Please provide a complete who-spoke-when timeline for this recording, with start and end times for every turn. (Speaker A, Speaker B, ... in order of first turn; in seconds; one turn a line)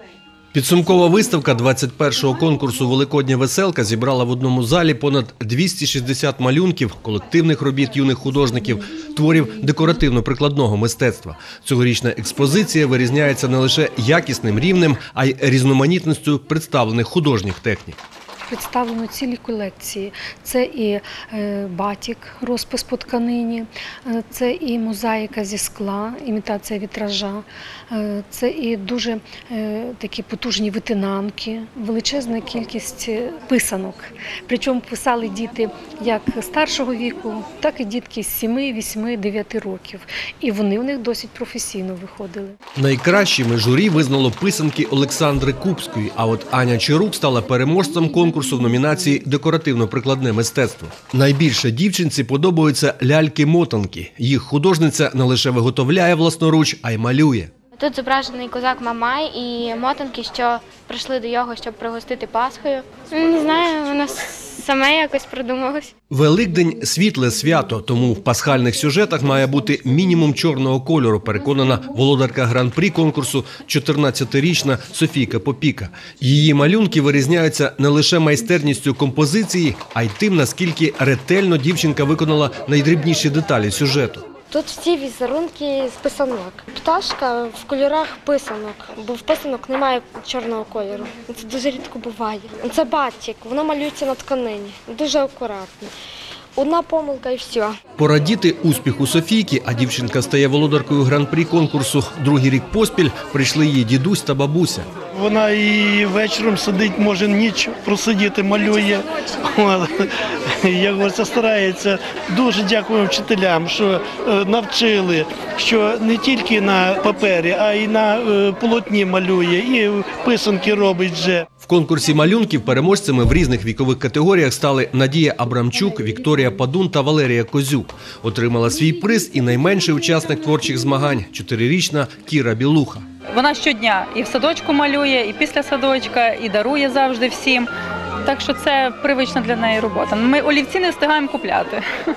Speaker A: 0.5-17.9
Speaker B: 18.4-42.5
Speaker A: 42.8-57.5
Speaker C: 57.8-65.9
Speaker A: 66.1-84.2
Speaker D: 84.5-95.9
Speaker D: 96.5-97.8
Speaker A: 98.0-104.9
Speaker E: 105.1-110.1
Speaker E: 110.6-121.4
Speaker A: 121.6-133.0
Speaker F: 133.3-137.7
Speaker F: 138.2-141.8